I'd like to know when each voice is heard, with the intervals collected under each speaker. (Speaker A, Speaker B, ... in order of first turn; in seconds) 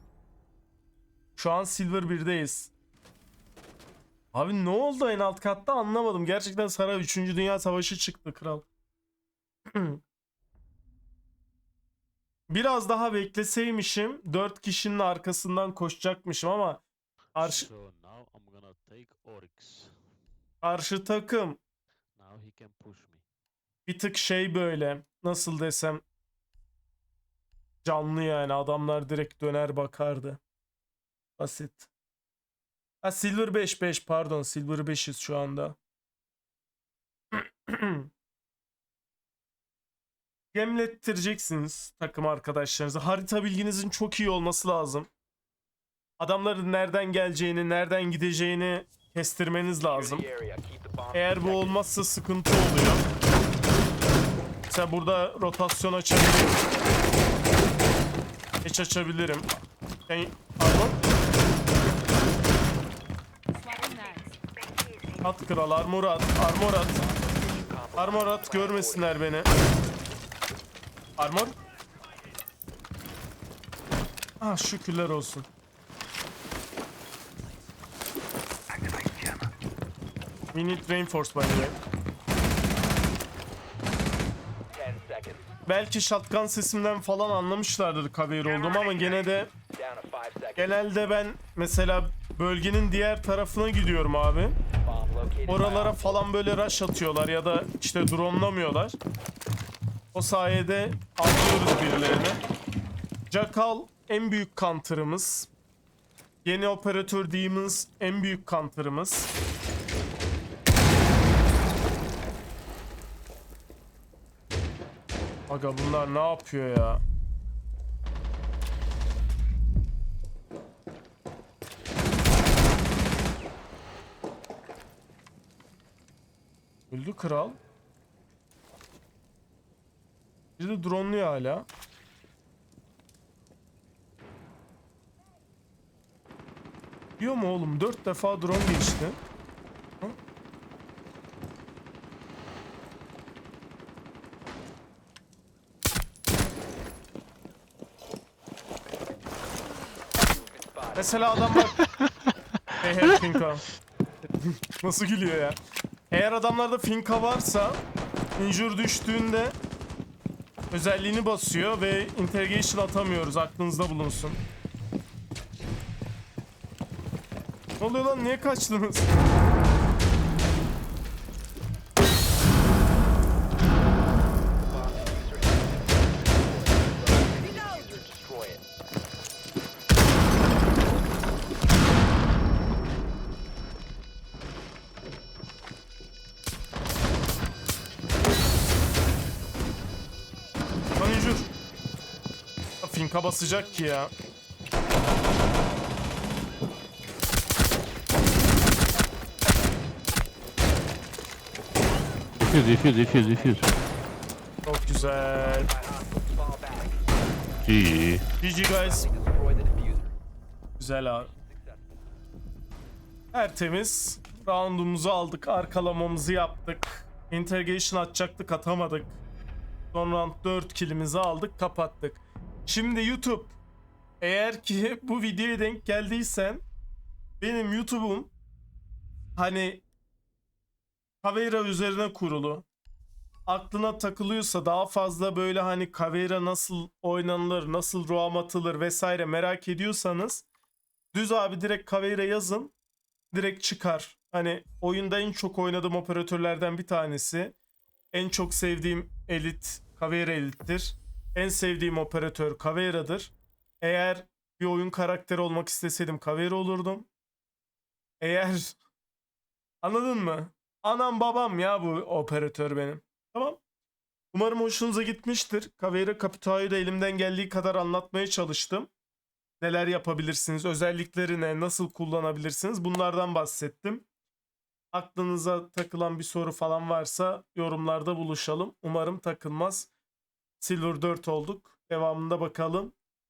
Speaker A: 1.4-2.7, 4.3-8.7, 9.7-10.0, 12.5-16.8, 17.4-17.7, 20.6-21.6, 23.9-26.0, 27.8-30.4, 31.4-31.9, 33.0-35.8, 37.3-38.1, 40.5-45.1, 46.2-50.2, 51.1-53.1, 54.7-56.6, 58.6-59.5, 60.1-61.0, 65.2-67.0, 68.0-69.5, 71.2-71.5, 74.4-75.5, 80.5-81.8, 85.7-89.5, 90.6-94.6, 95.5-99.0, 100.1-102.4, 103.3-105.5, 106.4-109.3, 115.5-117.0, 126.9-127.6, 130.6-131.7, 137.2-139.2, 150.9-151.8, 152.8-153.7, 154.4-155.6, 156.1-157.8, 158.4-159.6, 160.7-164.4, 167.8-169.1, 191.0-191.5, 192.8-194.1, 204.7-205.7, 208.4-209.1, 210.8-211.3, 213.3-219.2, 219.9-223.6, 224.2-226.6, 227.4-228.3, 229.3-229.8, 231.2-232.7, 233.5-240.4, 241.1-242.7, 243.3-247.6, 248.1-257.1, 258.2-258.8, 259.8-263.6, 264.3-268.9, 269.6-274.1, 274.9-279.9, 280.6-282.9
Speaker B: 17.4-19.9, 22.1-23.2, 202.4-203.4, 207.6-208.2
Speaker C: 49.8-51.9, 67.0-69.2, 84.7-85.5, 88.4-90.8, 94.8-96.2, 150.3-151.2, 174.7-178.6, 203.3-203.7, 204.9-207.2, 208.7-210.2, 211.1-212.1